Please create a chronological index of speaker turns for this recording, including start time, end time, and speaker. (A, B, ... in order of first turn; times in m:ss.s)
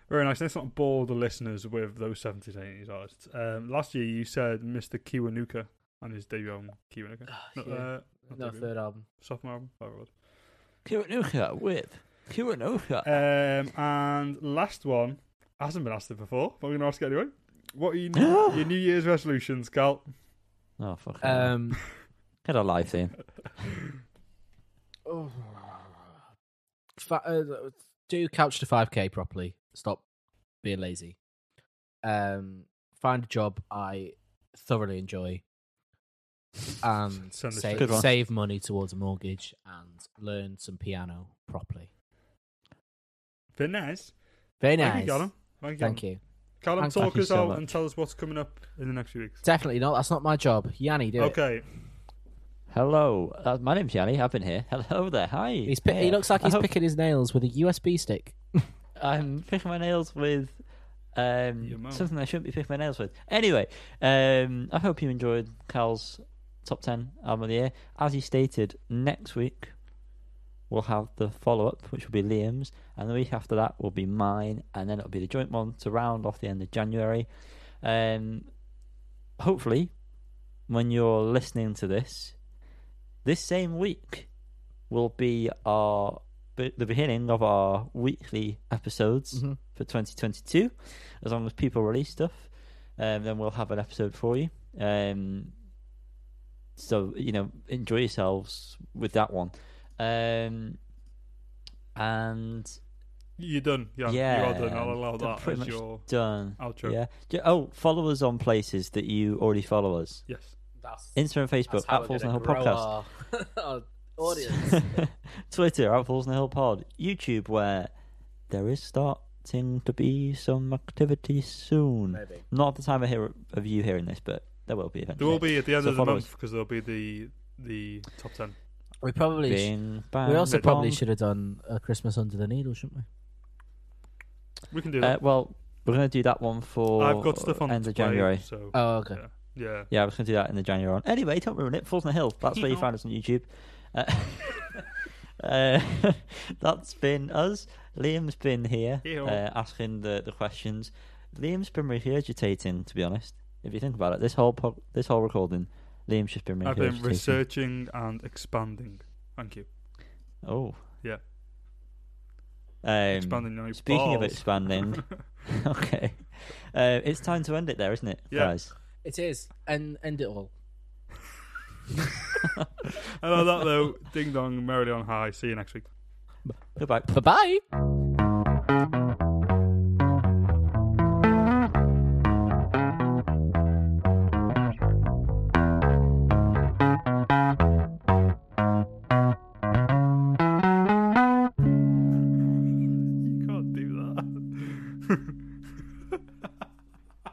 0:00.1-0:10.1 A
0:07.3-0:09.1 B
0:10.8-0:13.1 C
0:13.0-0:20.1 A
0:18.2-0:18.6 C
0:20.8-0:21.5 C
0:21.2-0:21.8 B
0:22.4-0:23.2 C
0:25.1-0:26.1 B
0:27.0-0:30.0 B
0:30.6-0:31.2 B
0:32.0-0:35.4 B
0:36.8-0:41.9 B
0:37.3-0:38.1 A
0:37.7-0:38.1 C
0:43.6-0:44.2 A
0:44.6-0:46.2 B
0:44.8-0:46.0 A
0:46.6-0:49.4 A
0:46.8-0:47.8 B
0:49.4-0:51.4 B
0:51.2-0:51.7 A
0:52.7-0:56.7 C
0:55.7-0:58.7 B
0:59.0-1:00.6 C
1:01.1-1:09.7 C
1:01.6-1:02.1 A
1:10.7-1:17.3 C
1:17.8-1:18.5 C
1:19.4-1:19.9 C
1:20.7-1:22.4 C
1:23.2-1:24.3 C
1:24.9-1:35.5 C
1:29.3-1:29.6 B
1:36.8-1:40.8 C
1:42.0-1:42.8 C
1:43.4-1:47.0 A
1:44.0-1:50.2 C
1:50.3-1:50.6 A
1:50.8-1:55.1 B
1:51.2-1:52.9 C
1:54.3-1:57.9 C
1:58.5-2:06.3 C
2:02.1-2:02.5 B
2:05.2-2:08.6 A
2:05.2-2:05.4 B
2:09.0-2:13.0 B
2:09.5-2:11.0 C
2:14.7-2:15.2 A
2:15.0-2:18.4 C
2:17.0-2:19.9 A
2:18.7-2:19.2 B
2:19.9-2:37.4 C
2:22.5-2:22.9 A
2:29.0-2:29.4 A
2:36.6-2:39.7 A
2:40.4-2:40.8 C
2:42.8-2:48.7 C
2:43.1-2:45.0 A
2:48.3-2:48.6 A
2:49.0-2:50.5 B
2:53.0-2:55.9 A
2:56.8-2:57.1 C
2:57.1-2:57.6 B
3:13.2-3:15.3 A